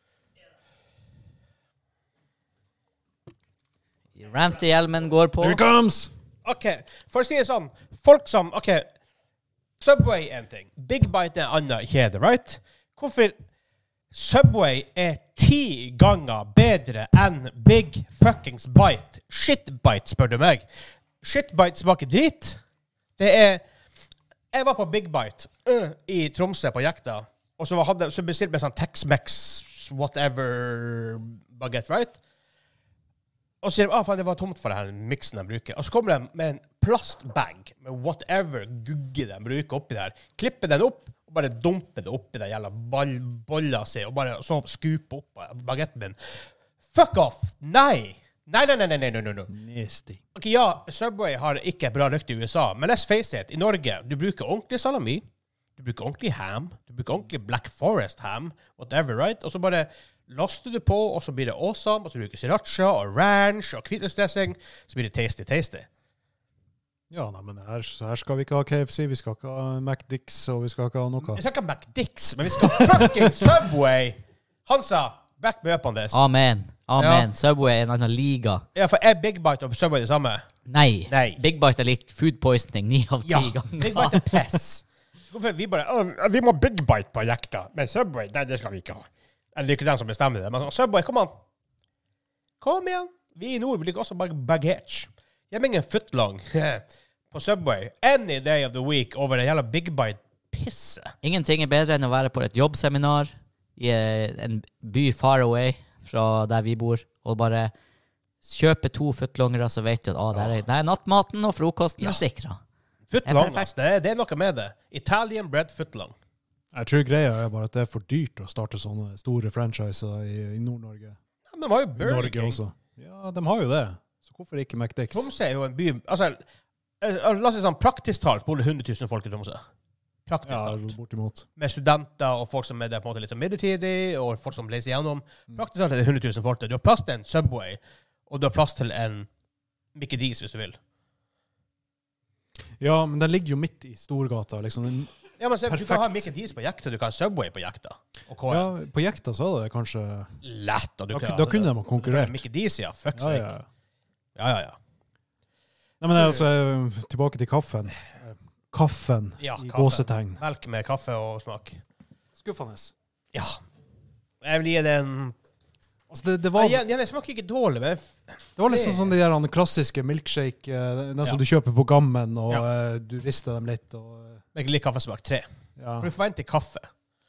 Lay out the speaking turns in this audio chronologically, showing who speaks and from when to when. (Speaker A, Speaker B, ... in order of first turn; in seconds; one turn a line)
Speaker A: 4.2-5.6
Speaker B: 5.4-6.1
Speaker C: 6.4-8.9
Speaker C: 9.8-13.4
Speaker C: 14.1-20.7
Speaker C: 21.2-22.6
Speaker C: 23.2-23.6
Speaker C: 24.5-32.2
Speaker C: 33.6-49.5
Speaker B: 49.5-50.2
Speaker C: 50.4-55.2
Speaker C: 55.8-65.9
Speaker B: 67.1-71.4
Speaker C: 71.2-76.2
Speaker B: 72.6-73.3
Speaker A: 76.1-78.6
Speaker C: 77.0-77.3
Speaker C: 78.8-80.4
Speaker A: 80.7-84.3
Speaker C: 81.1-81.4
Speaker C: 83.3-91.3
Speaker C: 92.6-101.1
Speaker A: 101.2-107.7
Speaker A: 108.4-112.6
Speaker C: 110.3-110.6
Speaker C: 113.1-116.2
Speaker A: 113.2-113.7
Speaker B: 116.7-121.2
Speaker C: 121.5-122.6
Speaker B: 122.0-125.3
Speaker C: 125.1-126.4
Speaker C: 127.0-129.6
Speaker C: 130.3-130.9
Speaker B: 130.5-131.5
Speaker C: 131.6-139.3
Speaker C: 139.9-140.8
Speaker B: 142.8-145.2
Speaker C: 145.4-148.7
Speaker B: 145.7-146.3
Speaker B: 148.5-150.4
Speaker C: 150.4-153.5
Speaker B: 151.1-152.4
Speaker B: 153.2-153.7
Speaker C: 154.4-154.8
Speaker B: 156.0-160.4
Speaker C: 156.2-156.4
Speaker C: 159.4-161.8
Speaker B: 162.4-162.9
Speaker C: 163.3-163.6
Speaker C: 164.4-165.4
Speaker B: 166.1-166.8
Speaker C: 166.6-169.1
Speaker B: 168.6-174.4
Speaker C: 174.6-176.9
Speaker B: 175.8-176.1